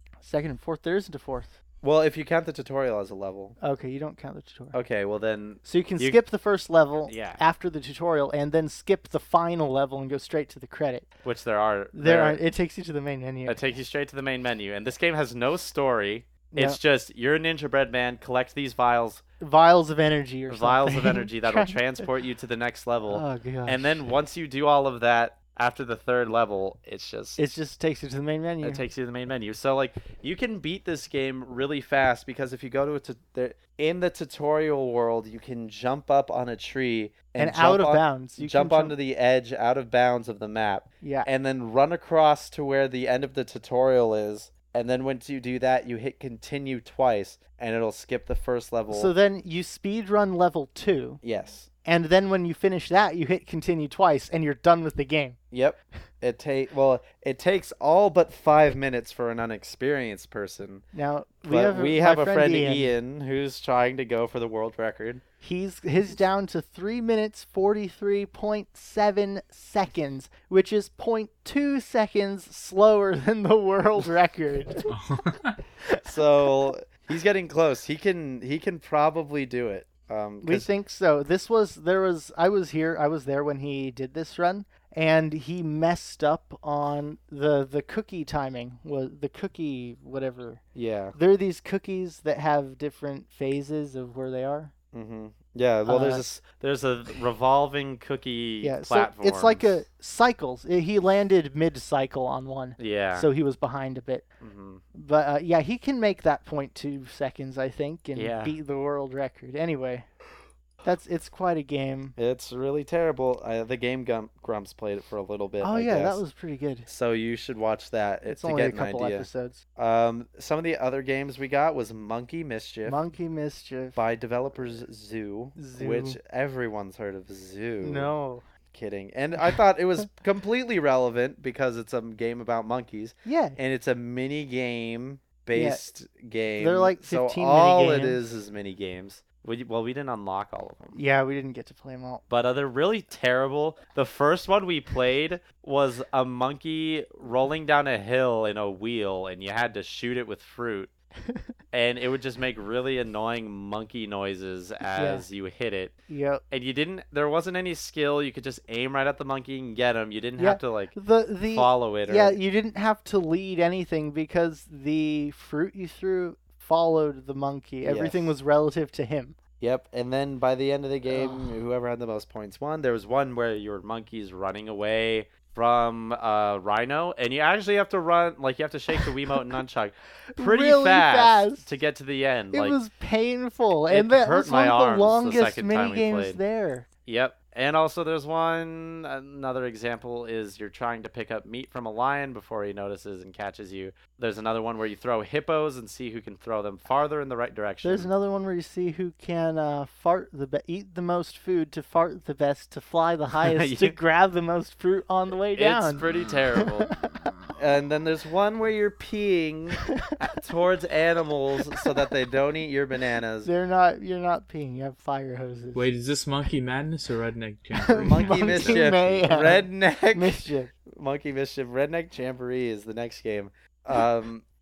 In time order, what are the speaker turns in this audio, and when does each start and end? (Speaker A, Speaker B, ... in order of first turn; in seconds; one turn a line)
Speaker A: 0.2-1.6
Speaker B: 1.8-3.6
Speaker A: 3.6-4.8
Speaker B: 4.7-6.2
Speaker A: 5.6-11.1
Speaker B: 7.0-7.4
Speaker B: 11.2-12.4
Speaker A: 11.9-13.7
Speaker B: 13.4-19.2
Speaker A: 16.5-16.8
Speaker A: 19.4-22.0
Speaker B: 20.5-27.4
Speaker A: 23.1-24.1
Speaker A: 27.4-28.8
Speaker B: 28.6-49.1
Speaker A: 37.4-39.0
Speaker A: 41.0-41.3
Speaker A: 48.9-51.2
Speaker B: 51.2-51.7
Speaker A: 51.8-55.4
Speaker B: 55.5-60.9
Speaker A: 60.9-62.9
Speaker B: 61.5-65.2
Speaker A: 65.4-74.9
Speaker C: 74.9-75.6
Speaker B: 76.0-80.7
Speaker A: 80.4-90.6
Speaker B: 90.7-91.2
Speaker A: 91.1-94.7
Speaker B: 94.9-99.8
Speaker A: 95.8-96.2
Speaker A: 98.6-104.2
Speaker B: 102.8-103.3
Speaker B: 104.4-104.8
Speaker A: 104.9-110.1
Speaker B: 108.1-108.6
Speaker A: 110.8-112.2
Speaker B: 112.2-116.2
Speaker A: 115.6-116.9
Speaker B: 116.9-123.0
Speaker A: 118.3-119.6
Speaker A: 122.8-124.0
Speaker B: 123.9-128.1
Speaker A: 125.5-126.2
Speaker A: 127.8-128.4
Speaker B: 128.7-141.0
Speaker A: 133.2-133.6
Speaker A: 135.5-135.8
Speaker A: 136.6-138.2
Speaker A: 140.9-142.2
Speaker B: 142.3-150.9
Speaker A: 151.3-151.5
Speaker B: 151.7-155.9
Speaker A: 154.9-155.2
Speaker A: 156.1-156.4
Speaker B: 156.5-161.0
Speaker A: 160.4-169.3
Speaker B: 161.5-162.4
Speaker B: 167.8-168.3
Speaker B: 169.6-182.8
Speaker A: 171.1-171.6
Speaker A: 180.3-181.7
Speaker A: 182.5-186.9
Speaker B: 183.9-186.4
Speaker B: 187.0-198.1
Speaker A: 197.8-206.1
Speaker B: 203.4-204.0
Speaker B: 205.6-206.9
Speaker A: 206.6-207.0
Speaker B: 207.6-213.5
Speaker A: 213.4-215.9
Speaker C: 215.7-219.2
Speaker A: 217.8-220.7
Speaker B: 218.0-224.4